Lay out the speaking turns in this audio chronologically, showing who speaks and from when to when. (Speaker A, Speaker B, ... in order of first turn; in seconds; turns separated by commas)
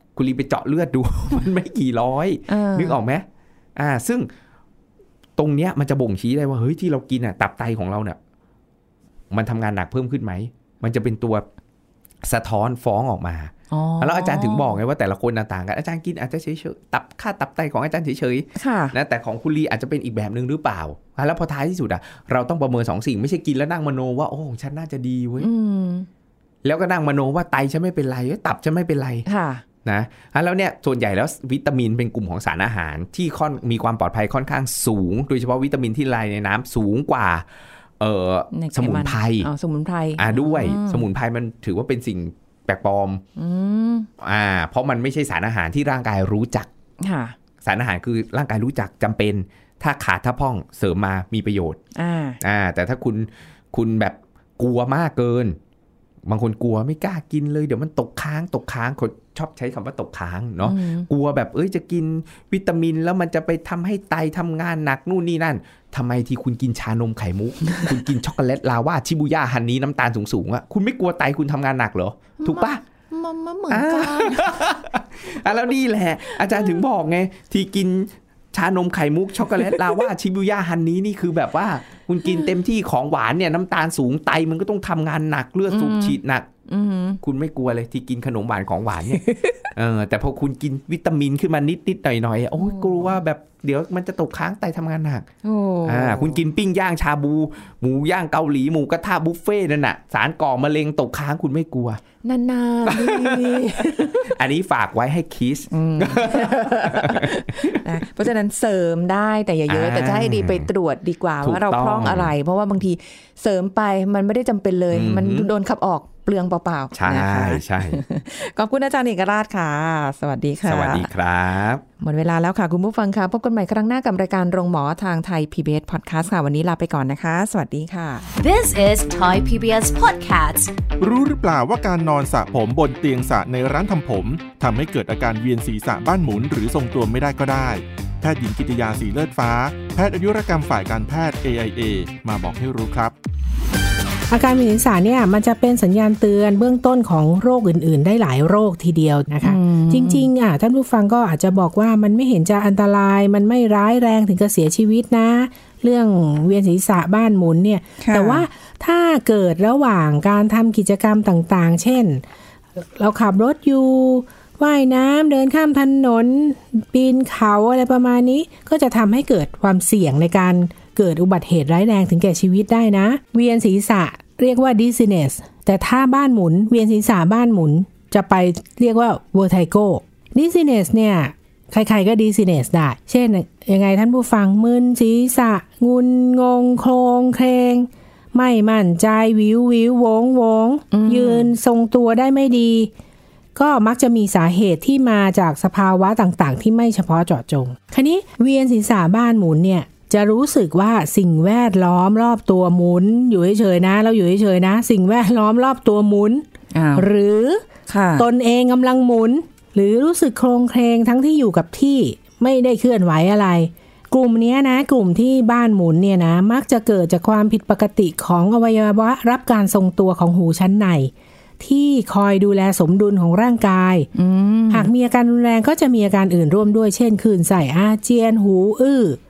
Speaker A: 0.1-4.3, Speaker B: 2.5-3.0, Speaker A: 5.4-8.2, Speaker A: 9.3-11.4, Speaker A: 12.2-25.5, Speaker B: 13.7-14.8, Speaker B: 18.6-18.9, Speaker B: 25.4-26.1, Speaker A: 26.6-29.3, Speaker B: 29.3-29.6, Speaker A: 29.8-37.5, Speaker A: 38.0-39.5, Speaker B: 38.5-41.0, Speaker A: 40.2-43.2, Speaker B: 43.4-44.1, Speaker A: 44.2-46.7, Speaker B: 47.0-47.4, Speaker A: 47.6-51.8, Speaker B: 51.9-52.4, Speaker A: 52.4-55.6, Speaker A: 56.3-72.8, Speaker B: 60.6-61.1, Speaker B: 72.4-74.8, Speaker A: 73.7-86.5, Speaker B: 76.3-76.8, Speaker B: 85.7-87.2, Speaker A: 87.2-95.3, Speaker B: 89.2-89.7, Speaker B: 92.6-93.2, Speaker B: 95.4-96.4, Speaker A: 95.8-102.0, Speaker B: 102.2-104.3, Speaker A: 102.9-107.8, Speaker B: 105.7-121.1, Speaker A: 109.7-110.7, Speaker A: 111.4-112.3, Speaker A: 114.9-115.5, Speaker A: 116.9-118.0, Speaker A: 120.6-121.8, Speaker B: 122.0-128.3, Speaker C: 128.3-130.7, Speaker D: 131.0-143.1, Speaker E: 144.3-162.2, Speaker B: 149.4-150.3, Speaker B: 158.0-158.4, Speaker E: 163.0-192.9, Speaker B: 190.9-191.5, Speaker E: 193.6-206.4, Speaker B: 206.7-207.1, Speaker E: 207.0-207.6, Speaker B: 207.9-208.3, Speaker E: 208.2-224.1, Speaker B: 224.1-224.9, Speaker E: 224.7-229.2